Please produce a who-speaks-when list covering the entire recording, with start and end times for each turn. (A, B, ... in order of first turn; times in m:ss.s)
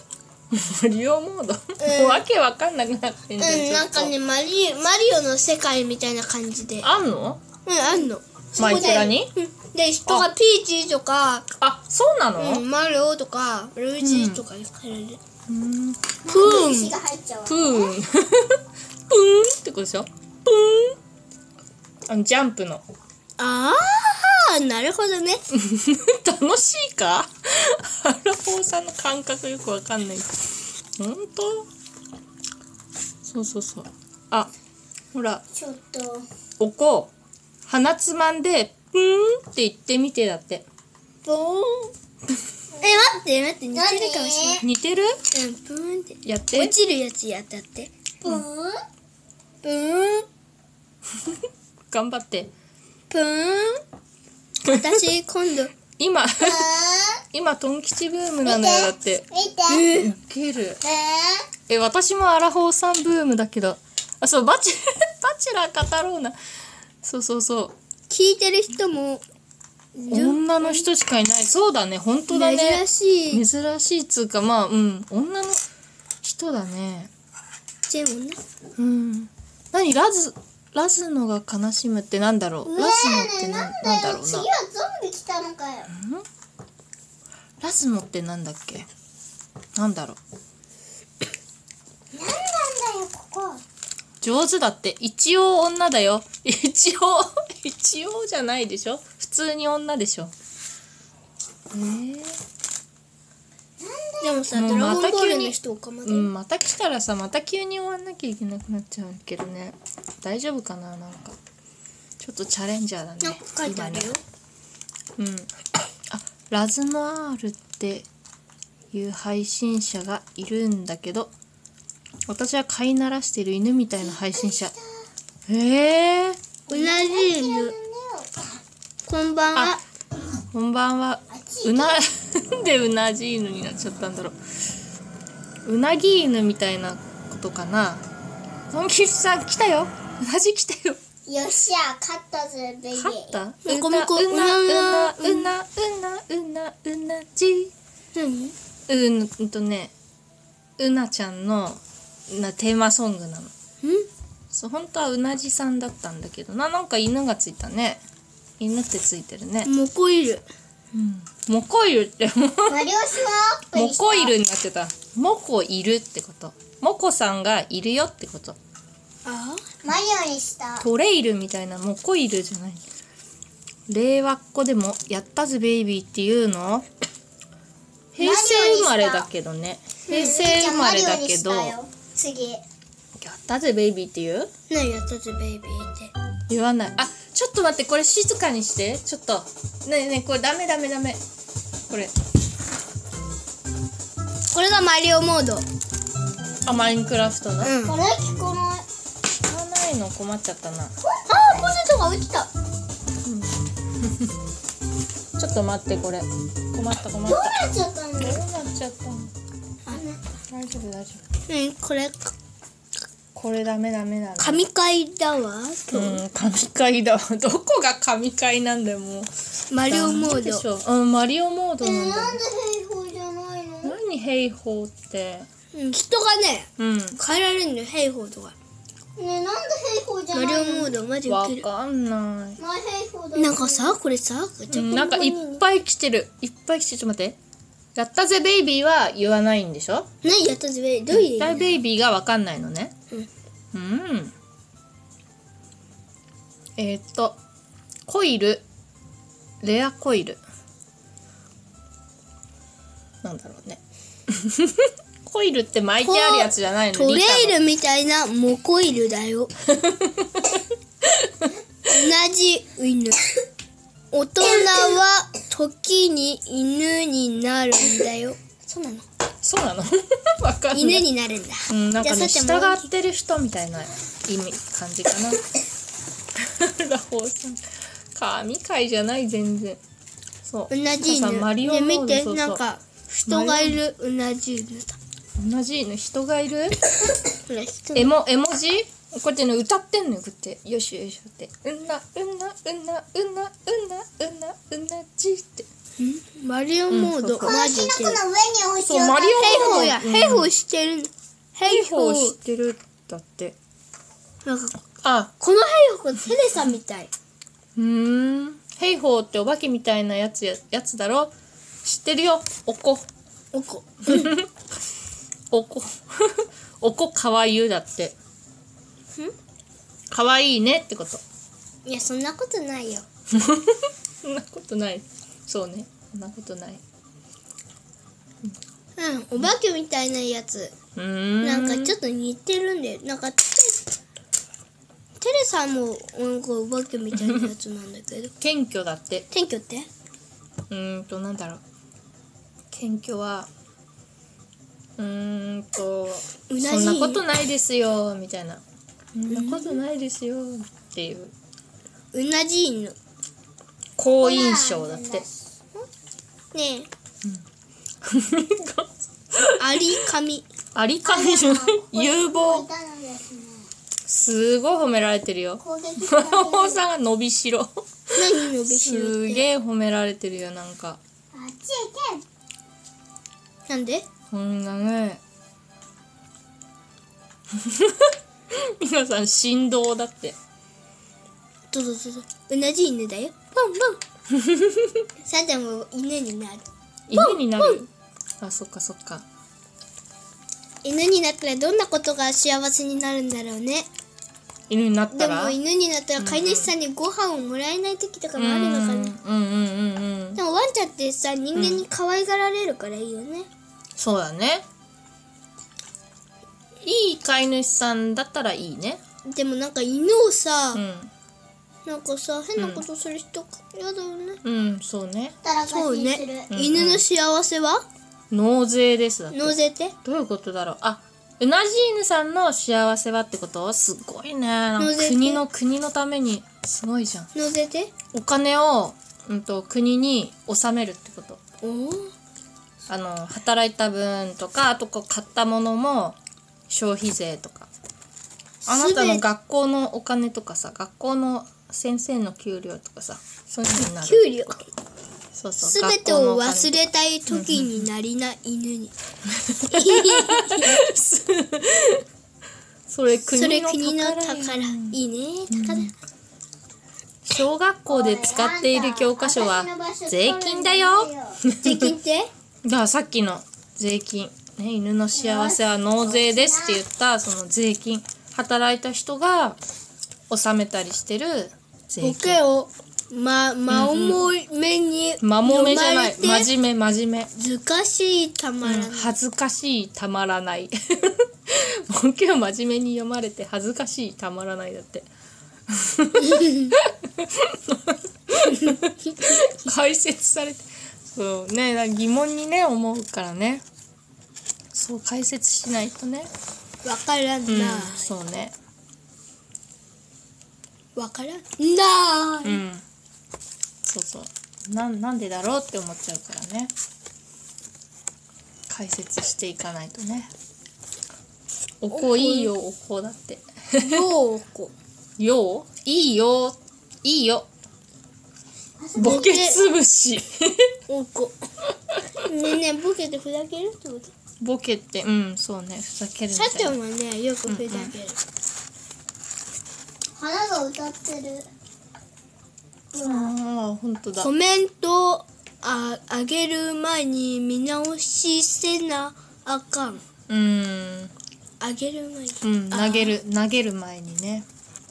0:00.5-0:04.1 A
0:01.8-0:02.2 B
0:03.4-0:06.9 B
0:06.8-0:07.4 A
0:07.6-0:11.5 B
0:08.6-0:09.3 A
0:11.6-0:12.6 A
0:12.4-0:15.2 B
0:14.0-0:14.4 A
0:15.5-0:16.1 A
0:16.2-0:18.0 C
0:16.3-0:16.9 B
0:17.4-0:21.0 A
0:22.1-0:22.8 A
0:23.4-0:25.4 B
0:25.5-0:30.5 A
0:31.0-0:31.7 A
0:33.2-0:34.5 A
0:35.1-0:35.4 A
0:35.5-0:36.2 C
0:36.6-0:37.1 A
0:37.7-0:40.6 A
0:41.2-0:41.9 B
0:42.7-0:43.2 C
0:42.8-0:44.6 B
0:43.7-0:44.6 C
0:44.6-0:45.2 A
0:45.3-0:47.9 B
0:46.2-0:46.7 A
0:48.2-0:48.8 C
0:49.6-0:50.3 B
0:51.9-0:52.5 A
0:53.1-0:53.8 B
0:54.6-0:55.0 A
0:54.7-0:55.7 B
0:56.0-0:56.7 A
0:56.4-0:57.2 C
0:57.3-0:59.3 A
0:58.4-0:59.9 C
0:59.7-1:00.1 B
0:59.9-1:00.8 A
1:00.8-1:01.5 C
1:01.7-1:06.4 A
1:07.0-1:07.7 A
1:08.1-1:09.2 B
1:09.9-1:10.9 B
1:10.1-1:15.6 A
1:12.3-1:13.4 B
1:16.2-1:17.1 A
1:17.9-1:18.4 B
1:18.8-1:24.5 A
1:22.6-1:25.9 C
1:25.9-1:26.2 A
1:27.6-1:28.9 A
1:29.8-1:30.2 A
1:32.1-1:33.6 C
1:34.2-1:40.3 A
1:41.7-1:42.4 A
1:43.8-1:44.8 C
1:44.2-1:46.3 B
1:44.5-1:51.4 A
1:52.2-1:54.1 A
1:53.2-1:54.2 B
1:55.2-1:55.5 A
1:56.1-1:58.1 A
1:58.9-2:01.3 A
2:02.3-2:04.7 A
2:04.0-2:04.8 C
2:05.5-2:06.4 A
2:06.7-2:08.6 C
2:06.7-2:07.7 B
2:09.1-2:09.8 B
2:10.5-2:14.4 A
2:11.3-2:12.0 C
2:15.6-2:18.0 A
2:18.7-2:21.0 A
2:21.2-2:23.4 C
2:22.9-2:27.7 A
2:23.6-2:25.5 B
2:28.1-2:28.5 B
2:28.9-2:29.9 A
2:30.8-2:33.5 A
2:33.8-2:34.1 B
2:34.5-2:38.0 A
2:38.6-2:39.7 A
2:39.6-2:40.4 B
2:40.9-2:42.9 A
2:42.7-2:44.3 C
2:43.7-2:48.6 A
2:49.2-2:49.7 B
2:49.8-2:50.8 C
2:50.8-2:52.8 A
2:53.9-2:56.8 A
2:58.1-3:01.7 A
2:58.2-2:59.3 C
3:00.1-3:02.6 C
3:03.2-3:04.5 A
3:04.7-3:06.1 B
3:06.5-3:11.2 A
3:14.5-3:15.6 B
3:16.6-3:17.7 A
3:17.6-3:18.0 B
3:17.8-3:18.8 C
3:19.4-3:20.9 A
3:21.3-3:22.5 B
3:23.2-3:24.3 A
3:25.4-3:29.3 A
3:27.2-3:28.4 C
3:29.9-3:30.2 C
3:30.5-3:31.2 A
3:31.5-3:32.3 B
3:33.3-3:34.6 A
3:34.4-3:36.2 B
3:35.9-3:39.3 A
3:39.7-3:40.6 B
3:39.9-3:42.4 A
3:41.8-3:44.0 C
3:43.8-3:45.5 A
3:45.7-3:48.5 B
3:46.8-3:47.2 A
3:49.2-3:50.9 C
3:50.3-3:51.6 B
3:51.3-3:52.6 A
3:52.6-3:54.0 C
3:53.4-3:55.6 B
3:54.7-3:57.4 A
3:57.9-4:00.1 A
4:00.2-4:01.8 B
4:01.1-4:02.9 A
4:03.7-4:04.3 A
4:06.8-4:07.4 A
4:08.1-4:08.6 A
4:09.6-4:10.4 A
4:13.2-4:17.6 A
4:16.0-4:19.5 B
4:19.7-4:21.5 A
4:21.9-4:23.2 B
4:24.1-4:29.0 B
4:29.4-4:31.1 A
4:30.7-4:32.9 B
4:31.7-4:35.4 A
4:36.4-4:37.6 A
4:38.1-4:39.8 A
4:40.4-4:42.6 A
4:40.7-4:45.0 B
4:43.2-4:43.8 A
4:45.4-4:46.8 A
4:47.5-4:48.1 B
4:47.9-4:55.7 A
4:56.0-4:58.2 B
4:56.9-4:57.5 A
4:57.4-5:00.0 C
4:58.8-5:00.5 A
4:59.3-5:02.3 B
5:01.6-5:03.6 A
5:04.4-5:04.8 B
5:05.0-5:05.3 A
5:05.4-5:07.1 B
5:07.8-5:11.3 A
5:11.8-5:13.1 A
5:13.5-5:14.4 B
5:14.0-5:14.5 A
5:15.5-5:18.1 A
5:20.1-5:21.2 A
5:21.8-5:23.0 B
5:23.3-5:26.8 A
5:29.0-5:30.7 B
5:31.0-5:31.9 A
5:31.4-5:33.8 B
5:35.2-5:38.3 B
5:38.4-5:39.3 A
5:39.3-5:39.9 B
5:40.7-5:41.6 A
5:42.7-5:43.5 A
5:45.0-5:48.6 A
5:46.5-5:47.2 B
5:49.1-5:51.3 A
5:49.3-5:49.8 B
5:52.1-5:53.0 B
5:54.0-5:55.2 A
5:54.2-5:55.4 C
5:56.5-5:56.9 B
5:58.0-6:00.0 A
5:59.6-6:00.4 B
6:00.7-6:02.6 A
6:01.0-6:03.7 C
6:04.1-6:11.0 A
6:05.6-6:06.8 C
6:08.1-6:09.4 B
6:11.3-6:12.2 C
6:13.7-6:14.0 B
6:14.3-6:15.2 A
6:17.5-6:20.4 A
6:21.7-6:24.0 B
6:24.3-6:25.0 A
6:25.2-6:27.8 B
6:27.1-6:27.9 A
6:28.4-6:29.2 A
6:30.8-6:33.9 B
6:34.7-6:35.6 A
6:35.1-6:39.1 B
6:36.2-6:36.7 A
6:38.4-6:40.4 A
6:40.4-6:43.5 B
6:41.5-6:41.8 A
6:44.0-6:44.6 A
6:46.8-6:49.0 A
6:49.2-6:50.8 B
6:50.7-6:51.1 A
6:51.8-6:54.4 B
6:52.6-6:52.8 A
6:54.4-6:55.3 A
6:55.4-6:56.5 C
6:55.7-6:57.8 B
6:56.5-6:57.0 A
6:58.3-7:07.3 A
6:59.3-6:59.9 B
7:04.8-7:05.4 B
7:07.3-7:07.9 B
7:08.1-7:11.4 A
7:11.6-7:12.1 B
7:12.9-7:16.2 A
7:16.7-7:17.7 A
7:18.6-7:19.2 B
7:18.7-7:24.5 A
7:23.8-7:24.6 B
7:25.3-7:27.9 A
7:25.6-7:28.9 B
7:29.3-7:32.0 A
7:29.7-7:30.9 B
7:32.9-7:35.0 A
7:33.2-7:35.9 B
7:35.5-7:35.9 A
7:37.2-7:41.9 A
7:37.9-7:41.4 C
7:41.6-7:42.3 B
7:42.6-7:49.6 A
7:45.1-7:46.8 C
7:50.3-7:52.4 A
7:52.0-7:56.5 B
7:53.7-7:54.3 A
7:55.2-7:57.3 A
7:57.3-7:59.1 B
7:58.6-8:05.1 A
8:05.7-8:13.6 A
8:06.3-8:06.7 B
8:08.5-8:09.5 B
8:14.7-8:16.3 A
8:16.8-8:18.1 B
8:17.5-8:18.5 A
8:21.0-8:22.6 B
8:22.4-8:22.8 A
8:23.8-8:26.7 A
8:28.7-8:30.3 A
8:31.8-8:34.0 A
8:31.9-8:32.5 B
8:33.8-8:34.7 B
8:35.2-8:37.5 A
8:38.8-8:39.3 C
8:38.9-8:40.8 A
8:39.0-8:39.6 B
8:40.9-8:41.4 B
8:42.1-8:44.1 B
8:44.4-8:46.8 A
8:46.3-8:48.2 B
8:47.5-8:47.9 A
8:50.2-8:51.5 C
8:52.9-8:53.3 C
8:53.0-8:54.3 A
8:54.2-9:00.0 B
9:00.3-9:01.1 A
9:01.6-9:03.2 B
9:02.4-9:04.4 A